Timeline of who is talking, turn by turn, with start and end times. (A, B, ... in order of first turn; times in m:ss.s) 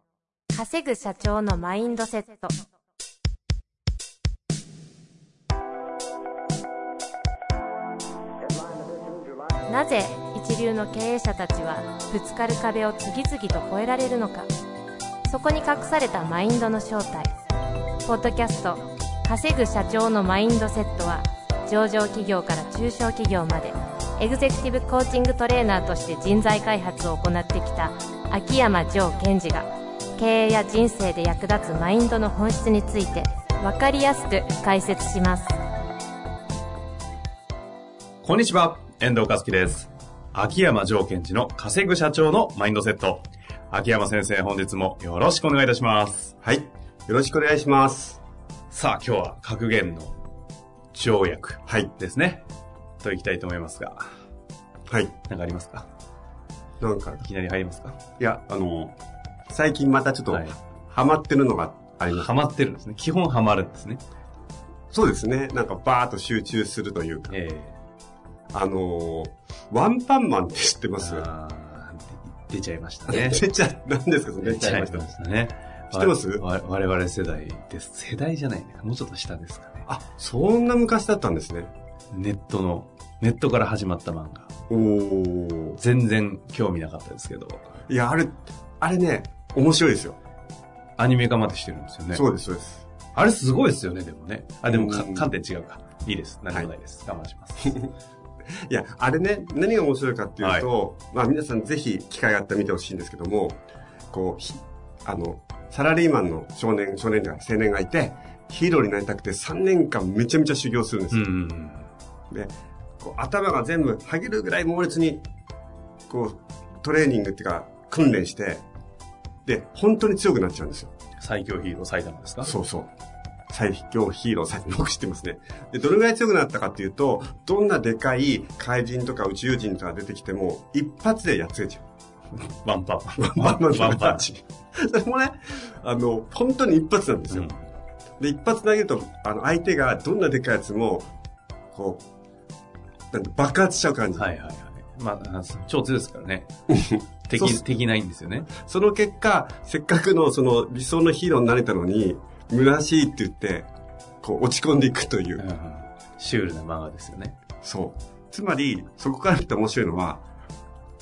0:00.5-0:02.5 A
0:09.7-0:14.5 A
0:15.3-0:17.3 A
0:18.0-0:35.5 A
0:38.2-0:46.3 B
0:46.4-0:48.2 C
0:48.7-0:50.1 B
0:50.9-0:52.4 B
0:53.0-0:54.0 B
0:54.9-0:55.1 C
0:55.3-0:55.9 B
0:56.8-0:57.3 C
0:57.2-0:58.0 B
0:58.2-0:59.0 C
0:59.5-1:02.3 C
1:02.1-1:04.0 B
1:04.9-1:07.4 C
1:07.3-1:07.8 B
1:08.5-1:11.3 C
1:11.0-1:13.4 B
1:13.1-1:15.1 C
1:14.4-1:19.8 B
1:15.9-1:16.4 C
1:19.9-1:21.7 C
1:22.1-1:24.5 B
1:24.7-1:25.8 C
1:25.8-1:27.7 B
1:27.9-1:30.2 C
1:31.0-1:32.2 B
1:32.1-1:32.9 C
1:33.1-1:37.8 B
1:34.7-1:35.3 C
1:38.7-1:43.6 C
1:40.4-1:40.7 B
1:44.1-1:51.3 C
1:51.1-1:51.9 B
1:52.3-1:55.2 C
1:56.1-1:58.6 C
1:59.5-2:00.9 C
2:01.2-2:02.5 B
2:02.4-2:02.9 C
2:03.5-2:11.8 C
2:12.5-2:14.2 B
2:13.2-2:17.5 C
2:17.3-2:17.6 B
2:18.2-2:21.1 C
2:21.7-2:22.0 C
2:23.1-2:24.3 C
2:24.2-2:26.5 B
2:26.7-2:27.6 C
2:27.3-2:28.5 B
2:28.6-2:33.7 C
2:34.2-2:35.4 C
2:35.4-2:37.4 B
2:37.6-2:40.2 C